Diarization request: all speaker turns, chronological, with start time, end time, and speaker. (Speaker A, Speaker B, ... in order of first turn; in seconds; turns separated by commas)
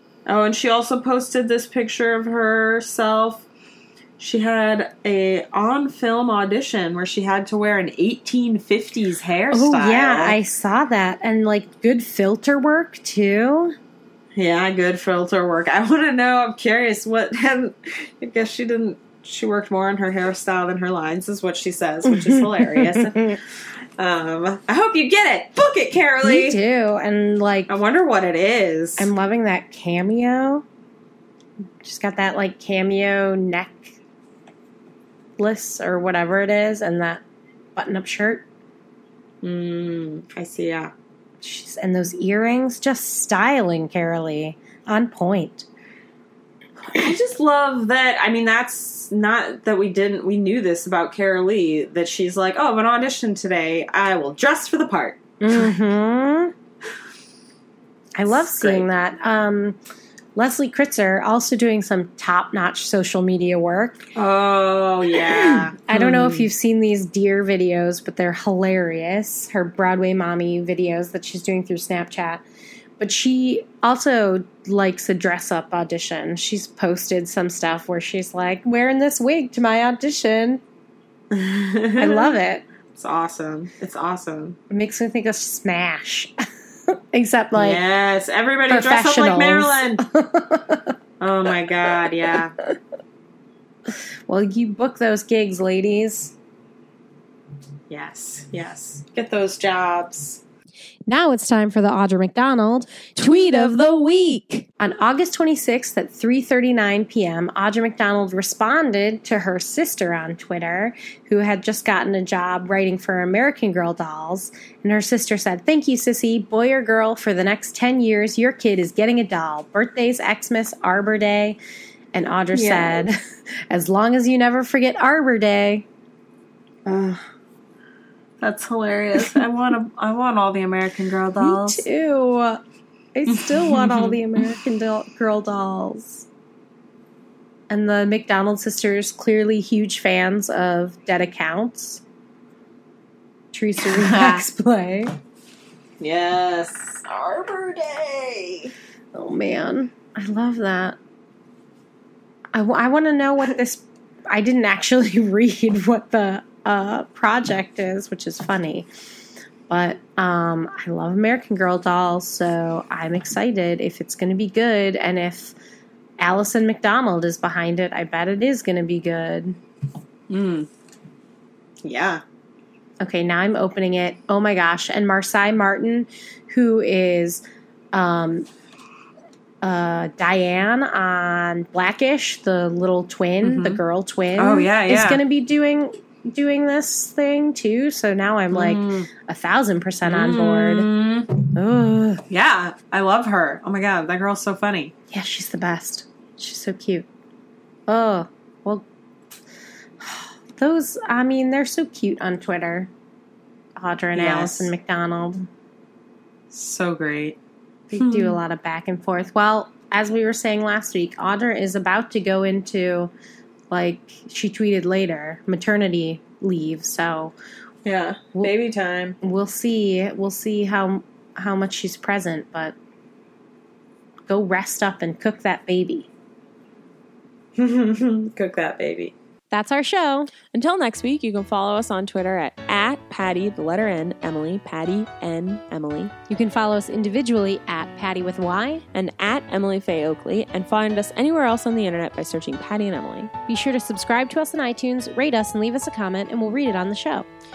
Speaker A: 0.3-3.5, Speaker A: 4.2-10.4, Speaker B: 9.5-13.8, Speaker A: 14.3-23.4, Speaker B: 22.1-23.4, Speaker A: 24.0-26.6, Speaker B: 26.2-27.7, Speaker A: 27.7-29.1, Speaker B: 29.0-30.6, Speaker B: 31.8-34.0, Speaker B: 35.4-37.2, Speaker B: 37.8-38.5, Speaker A: 39.4-40.9, Speaker B: 41.4-45.7, Speaker A: 46.9-55.7, Speaker B: 55.4-56.5, Speaker B: 58.2-59.8, Speaker A: 58.4-58.9, Speaker B: 60.4-64.1, Speaker A: 64.2-66.5, Speaker B: 65.2-72.4, Speaker B: 73.0-80.6, Speaker A: 81.3-82.3, Speaker B: 82.0-82.6, Speaker A: 83.0-84.6, Speaker B: 84.7-86.3, Speaker B: 86.9-87.8, Speaker A: 87.5-90.0, Speaker B: 88.7-90.9, Speaker A: 91.2-92.5, Speaker B: 94.3-96.3, Speaker A: 97.9-100.4, Speaker B: 101.1-104.2, Speaker C: 103.6-104.6, Speaker B: 104.8-121.6, Speaker B: 122.1-123.2, Speaker A: 122.5-123.1, Speaker B: 123.7-125.8, Speaker A: 126.9-127.2, Speaker A: 128.4-131.8, Speaker B: 131.4-132.6, Speaker B: 133.1-136.3, Speaker A: 133.3-134.4, Speaker B: 137.7-142.0, Speaker B: 143.5-145.1, Speaker A: 143.8-144.4, Speaker A: 146.0-148.7, Speaker B: 149.1-150.9, Speaker B: 152.5-158.9, Speaker B: 159.7-165.6, Speaker B: 166.2-169.6, Speaker A: 170.3-170.7, Speaker A: 171.8-172.2, Speaker B: 173.0-177.4, Speaker B: 177.9-178.5, Speaker B: 179.6-190.9, Speaker A: 183.4-183.8, Speaker A: 184.4-185.2, Speaker A: 188.5-189.1, Speaker A: 190.1-191.3, Speaker B: 191.5-192.2, Speaker A: 192.3-194.9, Speaker B: 195.1-197.1, Speaker B: 197.9-198.8, Speaker B: 200.0-202.9, Speaker B: 203.8-205.4, Speaker A: 204.1-204.7, Speaker A: 206.5-207.4, Speaker B: 207.9-213.1, Speaker A: 208.0-208.4, Speaker B: 213.7-217.3, Speaker A: 217.8-219.2, Speaker B: 219.2-222.7, Speaker B: 224.3-226.1, Speaker A: 227.6-229.1, Speaker B: 229.5-230.3, Speaker C: 230.5-236.1, Speaker B: 236.3-238.8, Speaker C: 238.9-243.3, Speaker B: 243.5-247.3